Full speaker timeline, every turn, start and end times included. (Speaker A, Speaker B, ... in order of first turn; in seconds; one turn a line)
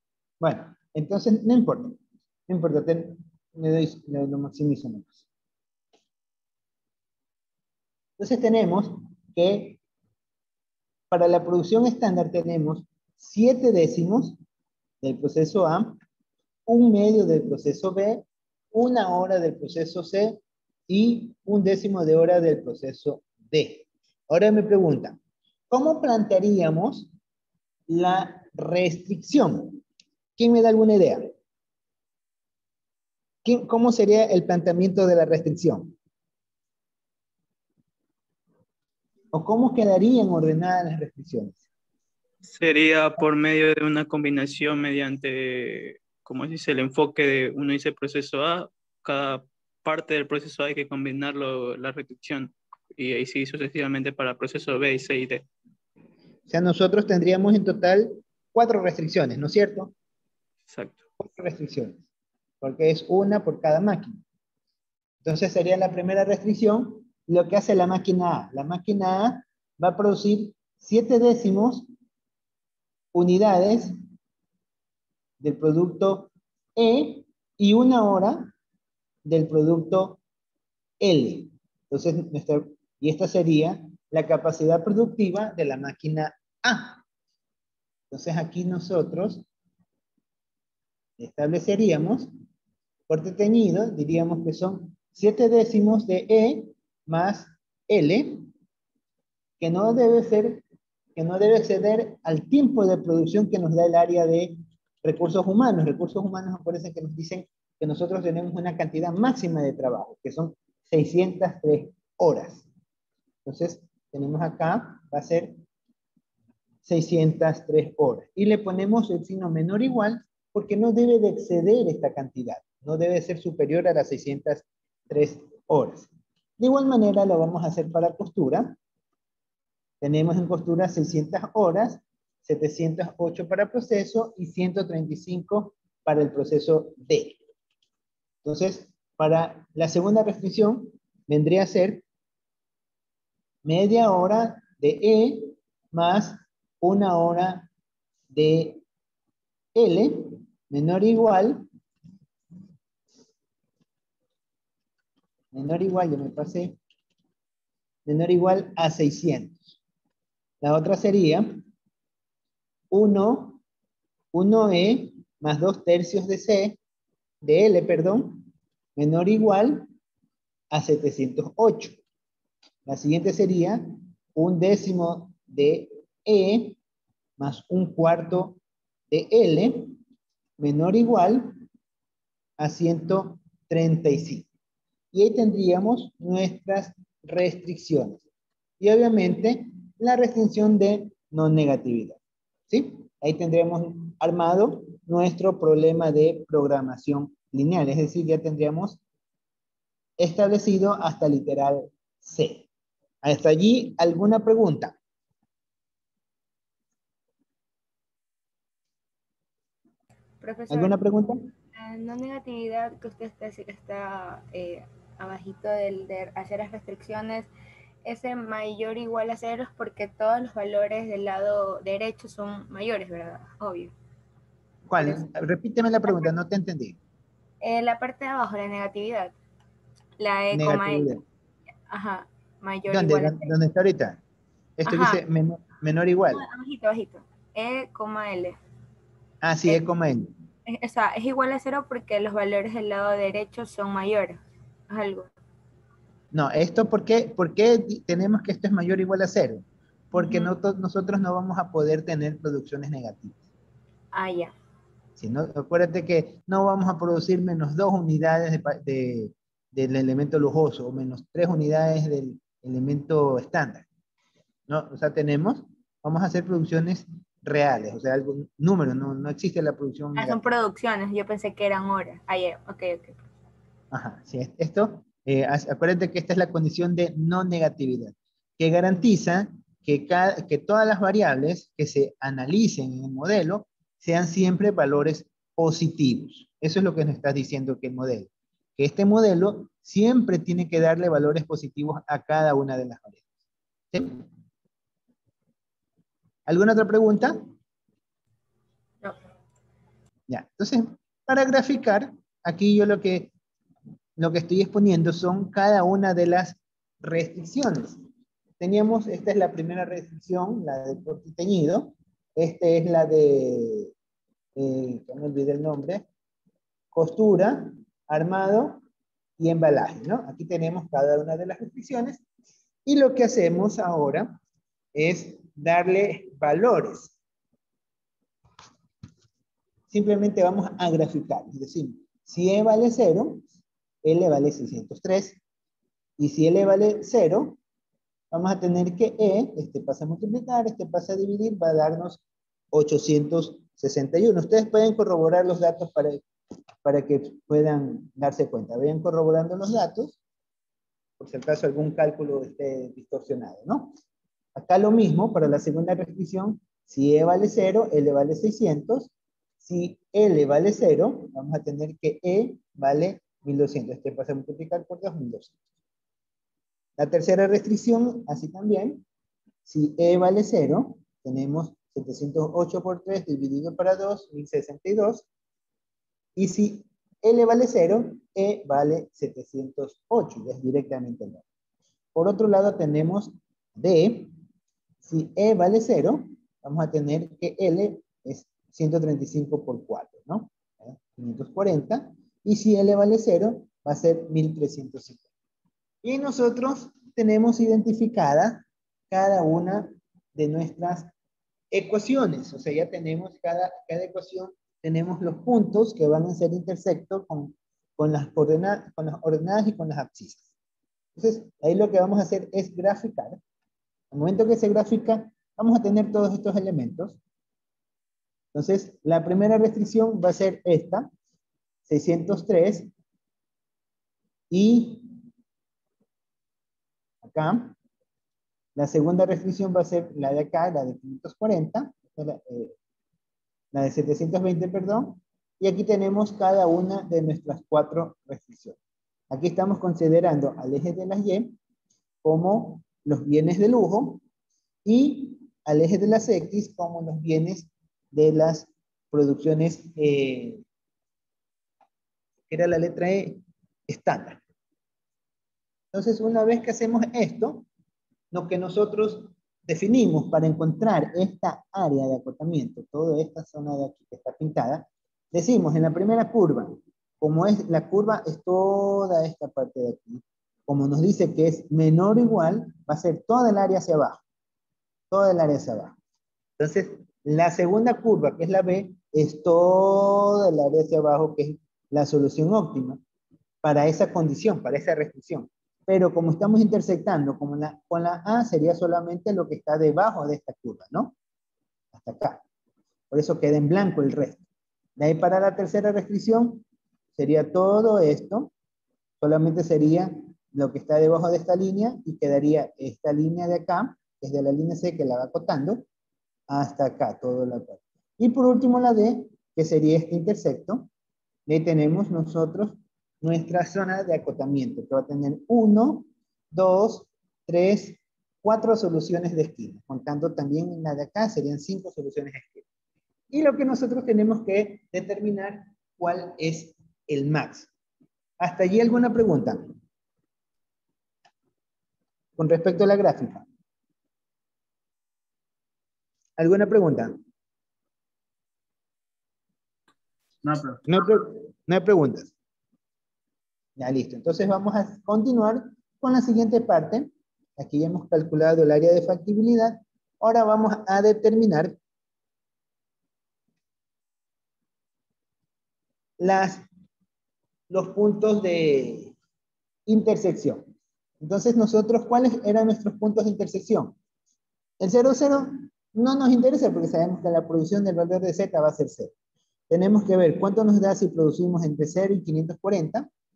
Speaker A: 0.4-5.2
Speaker A: 8.2-9.8
Speaker A: 11.1-14.4
Speaker A: 15.0-16.0
Speaker A: 16.7-25.2
Speaker A: 25.7-27.1
Speaker A: 27.9-29.8
Speaker A: 30.4-31.3
Speaker A: 33.4-35.9
Speaker A: 39.3-41.6
Speaker B: 42.5-55.4
Speaker A: 56.5-59.9
Speaker B: 60.7-61.0
Speaker A: 61.2-62.0
Speaker A: 62.6-64.2
Speaker A: 65.2-71.9
Speaker A: 73.1-73.9
Speaker A: 75.4-78.5
Speaker A: 79.2-80.2
Speaker A: 81.0-87.0
Speaker A: 88.1-89.4
Speaker A: 91.2-92.3
Speaker A: 93.1-98.5
Speaker A: 99.6-100.6
Speaker A: 101.2-112.7
Speaker A: 113.4-115.6
Speaker A: 116.8-128.8
Speaker A: 130.0-137.4
Speaker A: 138.4-142.0
Speaker A: 143.6-147.7
Speaker A: 148.3-148.8
Speaker A: 149.7-151.7
Speaker A: 155.5-156.8
Speaker A: 158.1-159.8
Speaker A: 160.6-161.6
Speaker A: 162.9-163.6
Speaker A: 164.3-166.8
Speaker A: 167.4-168.4
Speaker A: 168.9-169.9
Speaker A: 170.7-172.0
Speaker A: 172.9-176.8
Speaker A: 177.4-178.6
Speaker A: 179.1-180.0
Speaker A: 180.6-181.6
Speaker A: 182.6-184.5
Speaker A: 185.1-188.2
Speaker A: 188.8-192.2
Speaker A: 192.7-199.0
Speaker A: 200.2-202.7
Speaker A: 203.2-204.9
Speaker C: 210.4-217.5
Speaker A: 210.7-211.5
Speaker C: 218.0-223.9
Speaker A: 224.9-227.0
Speaker C: 225.0-225.2
Speaker C: 226.1-226.3
Speaker C: 227.6-229.3
Speaker C: 230.2-231.1
Speaker A: 230.5-231.2
Speaker C: 231.9-233.5
Speaker A: 232.9-234.2
Speaker A: 234.8-236.4
Speaker C: 234.8-235.2
Speaker C: 236.3-238.6
Speaker A: 239.4-240.3
Speaker C: 240.7-245.3
Speaker A: 246.3-253.3
Speaker C: 250.1-250.5
Speaker C: 254.1-254.5
Speaker A: 255.2-263.9
Speaker A: 264.7-270.5
Speaker C: 270.1-273.2
Speaker A: 273.9-293.2
Speaker A: 293.9-294.2
Speaker A: 296.5-297.4
Speaker A: 300.3-303.3
Speaker A: 304.2-308.0
Speaker A: 308.6-313.9
Speaker A: 314.6-316.0
Speaker A: 316.9-318.8
Speaker A: 319.4-322.2
Speaker A: 322.9-324.3
Speaker A: 324.9-327.1
Speaker A: 329.9-333.5
Speaker A: 334.0-335.4
Speaker A: 336.2-337.6
Speaker A: 338.3-342.2
Speaker A: 342.7-346.2
Speaker A: 346.8-350.1
Speaker A: 351.2-353.9
Speaker A: 354.6-359.1
Speaker A: 359.6-365.5
Speaker A: 367.0-369.0
Speaker A: 369.6-375.2
Speaker A: 376.4-381.4
Speaker A: 382.1-384.3
Speaker A: 385.0-395.2
Speaker A: 396.0-401.1
Speaker A: 401.7-410.5
Speaker A: 411.1-413.4
Speaker A: 414.1-417.2
Speaker A: 418.5-421.1
Speaker A: 421.9-422.9
Speaker A: 424.5-425.1
Speaker A: 427.2-427.7
Speaker A: 428.8-432.7
Speaker A: 433.7-438.8
Speaker A: 439.3-441.5
Speaker A: 442.2-444.2
Speaker A: 444.9-450.6
Speaker A: 452.5-454.4
Speaker A: 455.9-457.6
Speaker A: 458.3-474.2
Speaker A: 475.1-475.9
Speaker A: 476.6-483.0
Speaker A: 483.6-491.1
Speaker A: 491.9-492.4
Speaker A: 493.1-494.4
Speaker A: 495.0-496.6
Speaker A: 497.2-498.5
Speaker A: 499.2-505.8
Speaker A: 506.5-510.9
Speaker A: 511.5-522.6
Speaker A: 523.3-527.7
Speaker A: 528.4-529.7
Speaker A: 532.4-533.4
Speaker A: 536.4-537.1
Speaker A: 540.9-542.3
Speaker A: 543.8-551.7
Speaker A: 556.2-556.6
Speaker A: 557.7-559.1
Speaker A: 559.9-560.6
Speaker A: 561.2-563.9
Speaker A: 564.8-569.1
Speaker A: 569.7-573.1